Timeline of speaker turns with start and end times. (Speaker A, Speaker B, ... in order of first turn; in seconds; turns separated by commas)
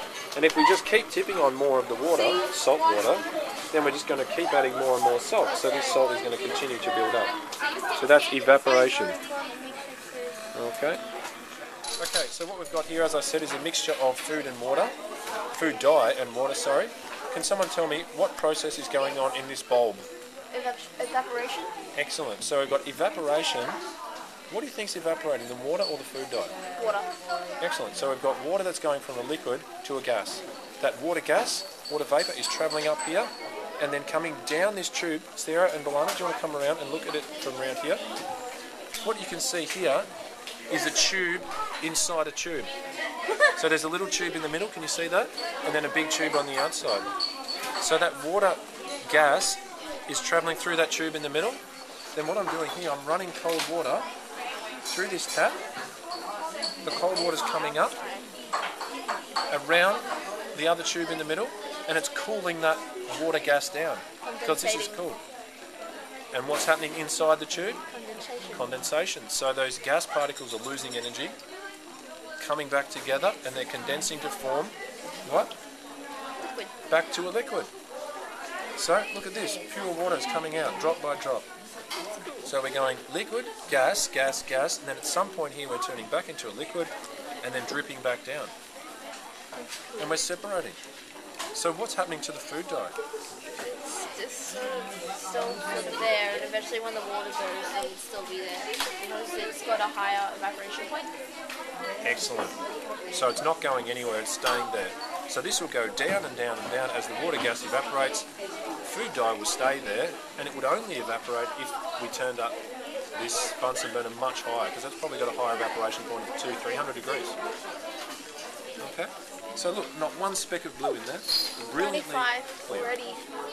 Speaker A: 0.3-7.3, Speaker A: 7.9-9.2, Speaker B: 8.6-10.4, Speaker A: 10.5-11.0, Speaker A: 12.0-14.9, Speaker A: 15.5-20.1, Speaker B: 20.5-21.7, Speaker A: 21.9-23.8, Speaker A: 24.5-26.5, Speaker B: 26.8-27.1, Speaker A: 27.6-38.0, Speaker A: 39.0-40.1, Speaker A: 40.7-42.7, Speaker A: 43.5-47.1, Speaker A: 47.8-51.6, Speaker A: 52.1-54.1, Speaker A: 54.9-55.6, Speaker A: 56.8-58.0, Speaker A: 59.5-65.2, Speaker B: 64.2-65.0, Speaker A: 66.3-67.8, Speaker B: 67.9-68.7, Speaker A: 68.5-71.4, Speaker A: 72.4-75.5, Speaker B: 76.4-76.7, Speaker A: 76.9-77.7, Speaker A: 78.8-81.5, Speaker A: 82.4-88.5, Speaker B: 89.5-90.2, Speaker A: 90.0-90.8, Speaker A: 91.5-93.0, Speaker B: 93.6-101.1, Speaker A: 102.0-102.6, Speaker A: 103.1-108.3, Speaker A: 108.8-112.6, Speaker A: 113.1-117.4, Speaker A: 118.8-122.9, Speaker B: 121.8-123.2